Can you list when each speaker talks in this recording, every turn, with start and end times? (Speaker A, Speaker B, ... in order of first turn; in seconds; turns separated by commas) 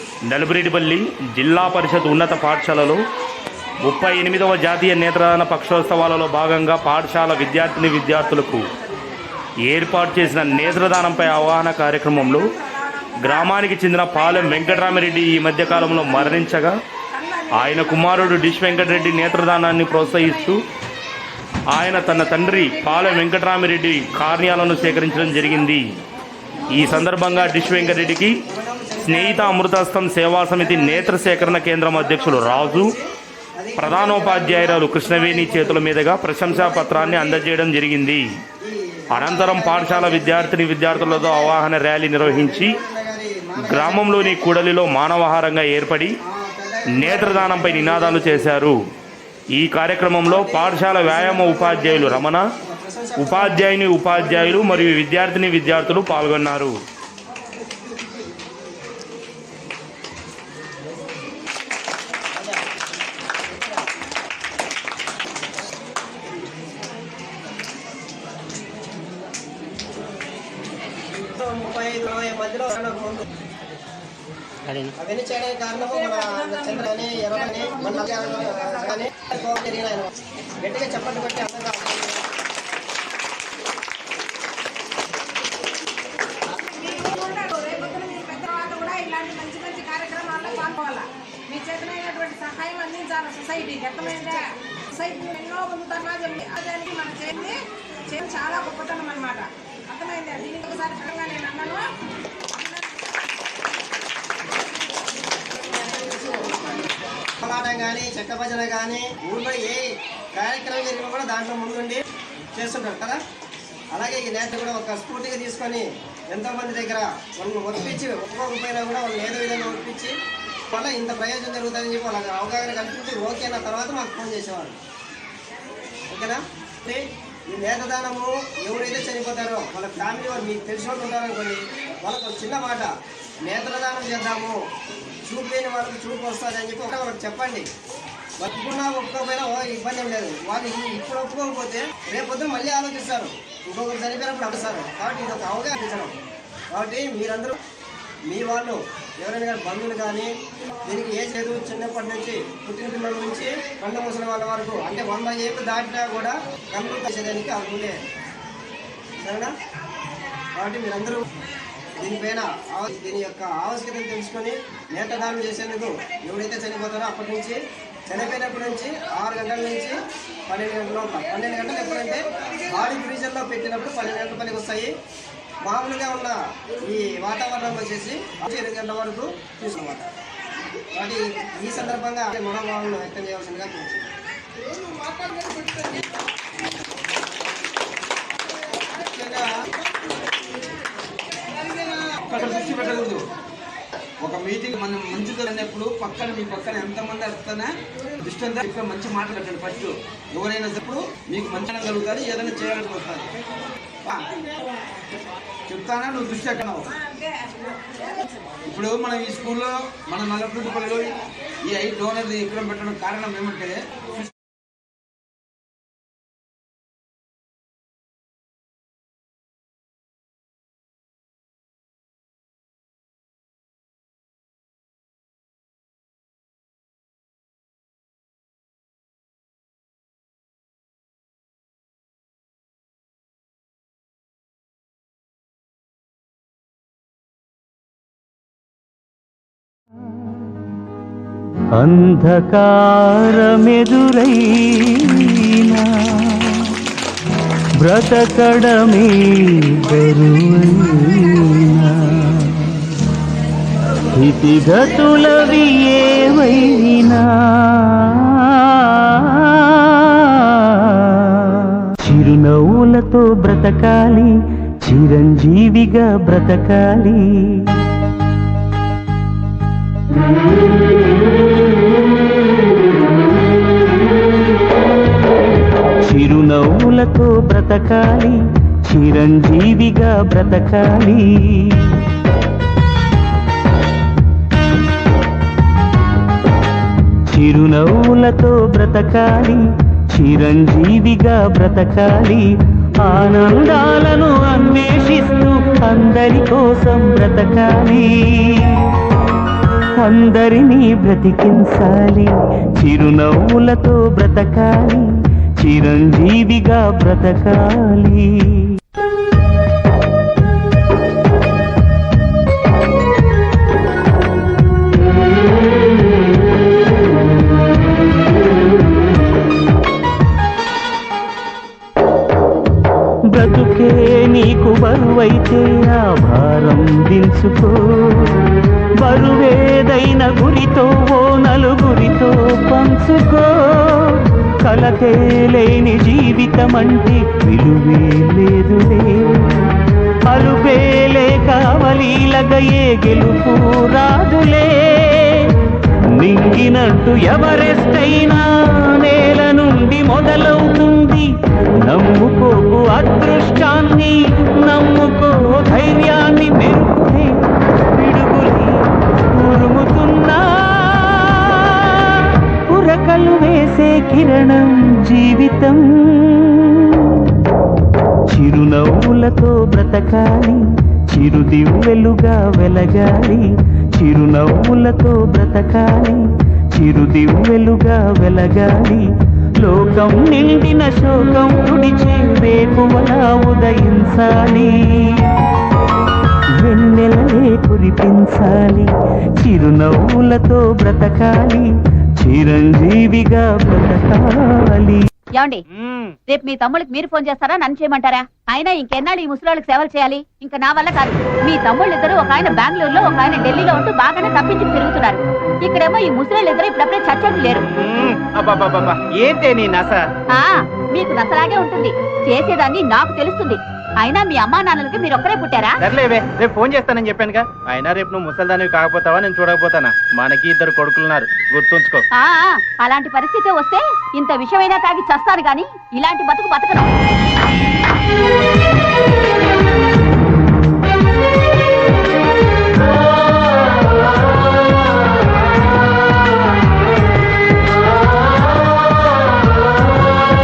Speaker A: 0.2-3.0, Speaker A: 3.8-8.6, Speaker A: 9.6-12.5, Speaker B: 12.2-13.5, Speaker A: 13.2-16.8, Speaker B: 14.2-15.3, Speaker B: 15.9-16.4, Speaker B: 17.1-20.6, Speaker A: 17.5-20.6, Speaker A: 21.7-25.9, Speaker A: 26.7-28.4, Speaker C: 27.5-29.6, Speaker A: 29.0-32.9, Speaker C: 30.6-35.9, Speaker A: 33.8-38.2, Speaker C: 36.4-37.4, Speaker C: 38.6-41.7, Speaker A: 39.1-42.8, Speaker C: 42.2-44.5, Speaker A: 43.6-46.1, Speaker C: 46.3-48.5, Speaker A: 46.9-48.8, Speaker A: 49.5-52.4, Speaker C: 50.2-54.9, Speaker A: 53.2-56.7, Speaker C: 71.3-73.3, Speaker C: 75.0-80.1, Speaker B: 76.0-78.2, Speaker C: 80.6-82.1, Speaker B: 86.6-97.6, Speaker B: 98.1-101.8, Speaker B: 102.5-103.0, Speaker C: 107.4-112.0, Speaker C: 112.5-113.2, Speaker C: 113.9-120.1, Speaker C: 120.7-124.8, Speaker C: 126.1-132.9, Speaker C: 133.4-134.6, Speaker C: 135.2-137.7, Speaker C: 138.4-146.1, Speaker C: 146.7-147.6, Speaker C: 148.3-150.3, Speaker C: 150.9-158.0, Speaker C: 159.2-159.5, Speaker C: 160.5-161.2, Speaker C: 162.0-174.9, Speaker C: 175.6-180.1, Speaker C: 180.9-184.1, Speaker D: 189.1-189.4, Speaker D: 192.3-193.2, Speaker D: 194.3-197.7, Speaker D: 198.3-203.3, Speaker D: 205.7-206.8, Speaker B: 207.0-207.3, Speaker D: 208.7-211.1, Speaker D: 211.7-213.8, Speaker E: 241.7-246.7, Speaker E: 247.8-252.9, Speaker E: 254.1-267.8, Speaker E: 276.0-282.0, Speaker E: 287.3-298.9, Speaker E: 300.0-308.8, Speaker E: 323.3-339.7, Speaker E: 340.3-345.5, Speaker E: 346.1-351.3, Speaker E: 351.8-357.4, Speaker E: 357.9-367.3, Speaker E: 368.3-385.2, Speaker E: 386.6-395.1, Speaker F: 395.4-395.6, Speaker G: 395.8-396.1, Speaker F: 396.2-407.7, Speaker G: 407.7-410.1, Speaker F: 410.4-415.8, Speaker G: 415.8-422.0, Speaker F: 422.1-426.9